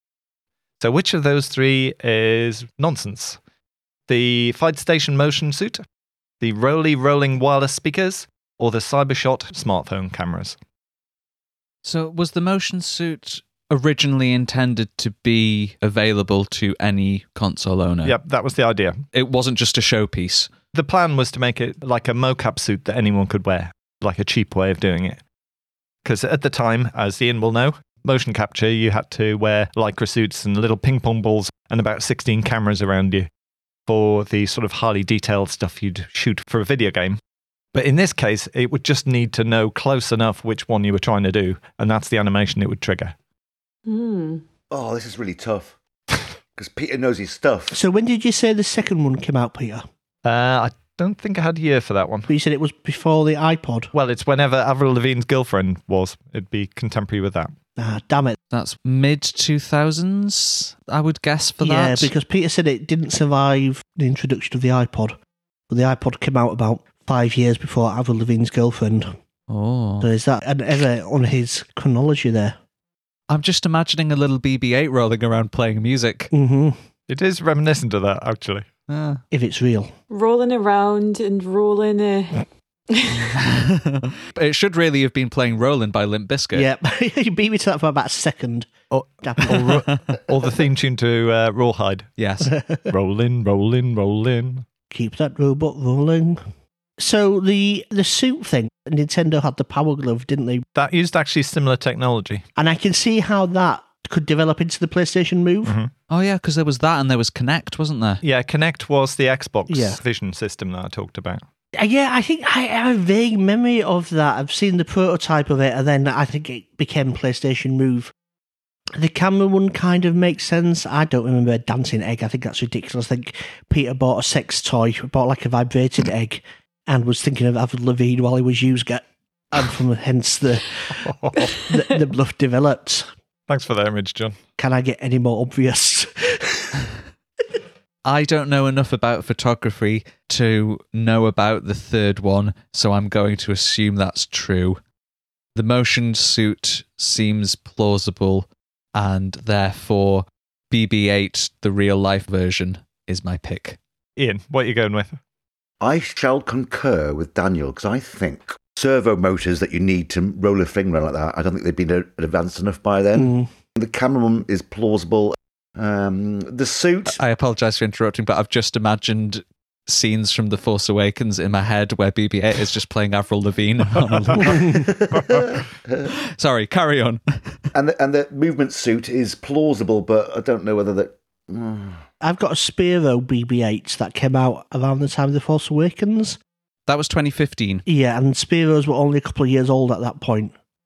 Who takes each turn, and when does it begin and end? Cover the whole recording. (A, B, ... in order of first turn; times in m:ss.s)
0:00.8-0:03.4 A
0:04.1-0:05.8 A
0:06.4-0:10.6 A
0:11.8-0:18.2 B
0:18.0-0:19.0 A
0:19.1-0:20.5 B
0:20.7-0:25.2 A
0:26.0-0:33.3 A
0:33.9-0:37.2 A
0:37.7-0:43.1 A
0:43.8-0:44.4 C
0:44.7-0:45.7 D
0:46.6-0:47.8 D
0:47.7-0:49.8 E
0:50.2-0:52.3 A
0:52.3-0:53.9 E
0:53.9-0:57.5 A
0:57.8-0:58.4 E
0:58.5-1:02.1 B
1:01.6-1:05.2 E
1:05.7-1:09.1 E
1:09.5-1:10.1 B
1:10.0-1:12.6 E
1:13.3-1:16.3 B
1:16.3-1:16.8 E
1:17.1-1:18.7 A
1:18.9-1:19.2 B
1:19.3-1:19.9 E
1:20.1-1:23.4 C
1:23.4-1:26.7 B
1:26.5-1:29.9 E
1:28.9-1:32.1 A
1:32.2-1:32.5 B
1:32.4-1:32.9 E
1:32.9-1:34.6 A
1:34.9-1:36.4 E
1:37.0-1:40.6 E
1:40.7-1:42.4 A
1:42.6-1:45.8 E
1:45.6-1:45.9 A
1:46.1-1:48.2 B
1:48.2-1:51.4 A
1:49.7-1:50.0 E
1:51.8-1:58.1 E
1:58.9-2:11.1 E
2:11.0-2:11.5 A
2:11.7-2:13.1 E
2:13.5-2:14.4 A
2:14.6-2:16.8 E
2:18.0-2:24.8 B
2:25.5-2:33.8 B
2:34.2-2:35.2 A
2:35.8-2:47.2 D
2:43.1-2:43.5 E
2:47.1-2:54.9 B
2:54.6-2:56.0 D
2:55.1-2:55.5 A
2:56.0-2:57.6 B
2:57.7-3:02.0 D
3:02.2-3:06.4 E
3:06.9-3:07.8 B
3:07.8-3:10.5 E